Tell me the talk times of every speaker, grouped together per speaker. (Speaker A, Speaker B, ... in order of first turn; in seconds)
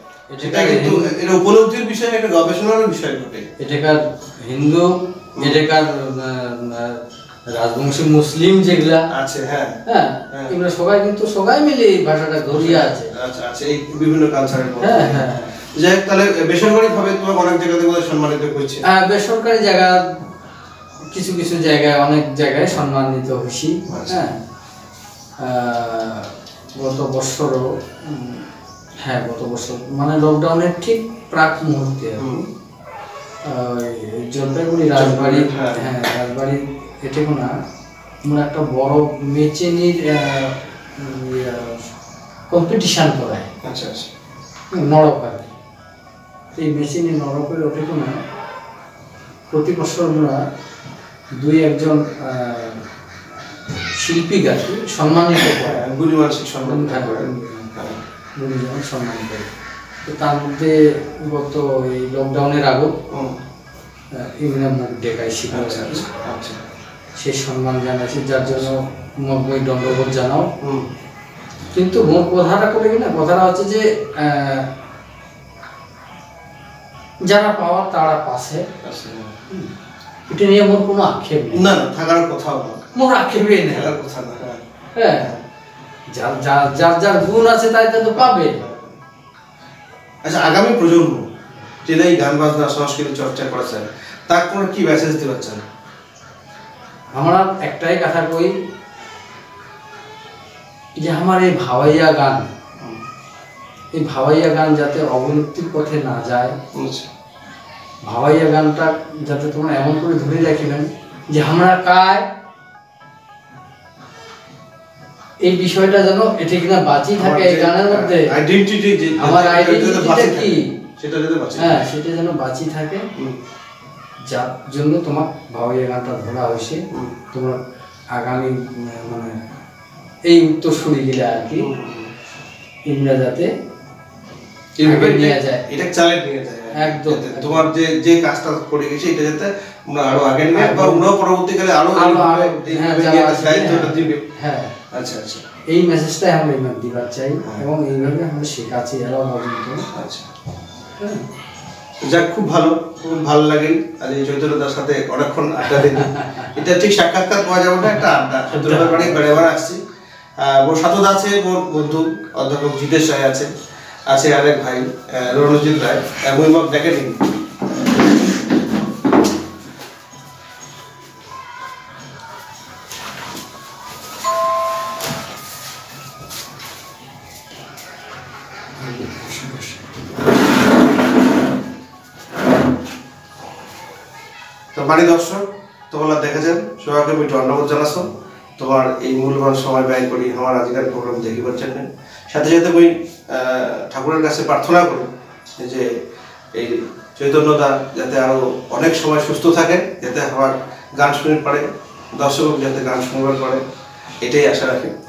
Speaker A: 0.3-1.1, 3.6-9.1, 9.8-13.1, 14.8-15.5, 18.8-20.0, 21.1-24.3, 25.4-28.4, 29.0-32.2, 33.5-37.5, 38.2-41.8, 42.5-43.5, 44.7-45.5, 46.5-48.2, 49.5-50.4, 51.4-52.8, 54.0-55.8, 56.6-57.7, 58.4-59.5, 60.0-62.9, 64.1-66.0, 67.2-70.5, 71.7-74.7, 77.2-78.6, 80.3-81.6, 82.9-83.9, 85.0-85.3, 86.1-88.7, 97.1-98.5, 101.0-102.4, 103.9-106.5, 108.0-112.2, 115.4-118.3, 119.2-120.6, 121.6-123.0, 124.3-127.6, 128.1-129.3, 130.3-131.7, 132.9-133.5, 134.8-135.6, 136.7-137.7, 140.5-141.1, 141.9-144.7, 145.7-149.8, 151.0-151.2, 155.7-156.6, 157.9-159.4, 178.8-179.8
Speaker B: 0.4-3.5, 9.1-9.8, 12.5-18.8, 23.9-24.2, 32.2-32.5, 34.9-35.8, 43.6-44.1, 55.4-58.0, 63.1-63.4, 65.5-66.6, 70.6-70.9, 78.8-79.3, 81.5-82.8, 83.7-84.6, 88.4-89.0, 90.2-91.3, 91.8-95.6, 106.7-107.1, 117.2-121.8, 131.6-132.1, 134.8-144.2, 144.9-145.4, 149.9-150.3, 152.1-159.8, 160.4-163.5, 164.1-167.2, 184.7-195.9, 196.5-203.6, 204.2-204.9